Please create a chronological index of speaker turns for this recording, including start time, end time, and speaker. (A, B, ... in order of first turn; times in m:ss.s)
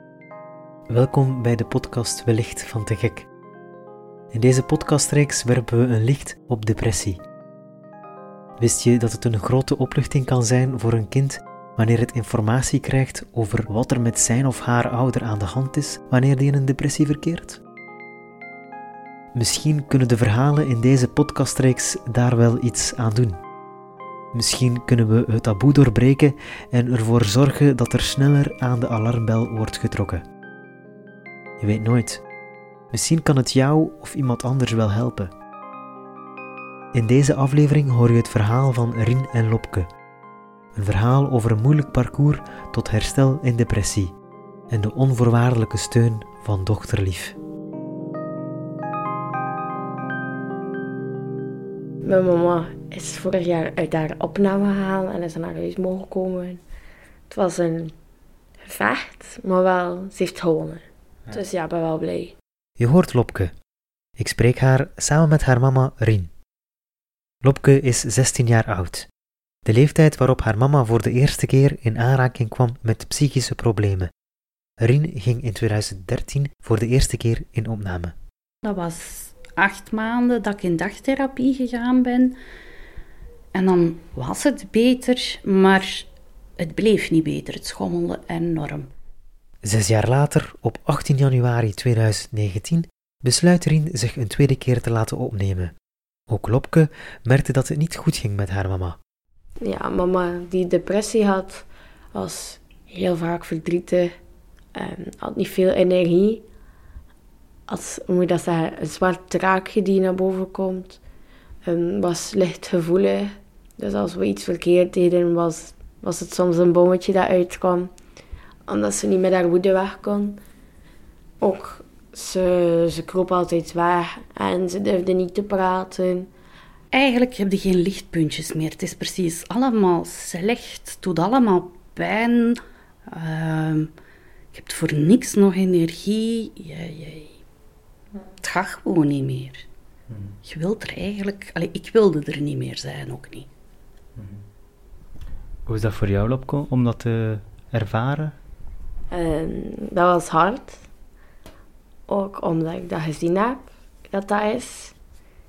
0:00.9-0:03.3 A
0:04.3-0:07.2 A
0:08.6-0:17.6 A
0:19.3-0:23.4 A
0:24.3-0:30.2 A
0:31.6-0:32.2 A
0:32.9-0:35.3 A
0:36.9-0:39.9 A
0:40.8-0:44.1 A
0:44.7-0:47.4 A
0:52.0-0:56.6 B
0:57.3-0:57.9 B
0:58.6-1:02.4 B
1:02.8-1:03.5 A
1:04.2-1:06.3 A
1:07.4-1:09.1 A
1:09.6-1:14.1 A
1:14.8-1:18.2 A
1:18.6-1:22.4 C
1:23.5-1:26.1 C
1:26.6-1:28.9 C
1:29.6-1:35.7 A
1:36.3-1:39.0 A
1:39.6-1:44.1 B
1:44.7-1:46.4 B
1:47.7-1:51.0 B
1:51.6-1:57.9 B
1:58.7-2:00.4 B
2:01.4-2:06.3 B
2:06.9-2:13.9 C
2:14.5-2:17.4 C
2:18.4-2:19.6 C
2:20.4-2:23.5 C
2:25.7-2:28.4 A
2:29.1-2:30.8 B
2:32.1-2:34.9 B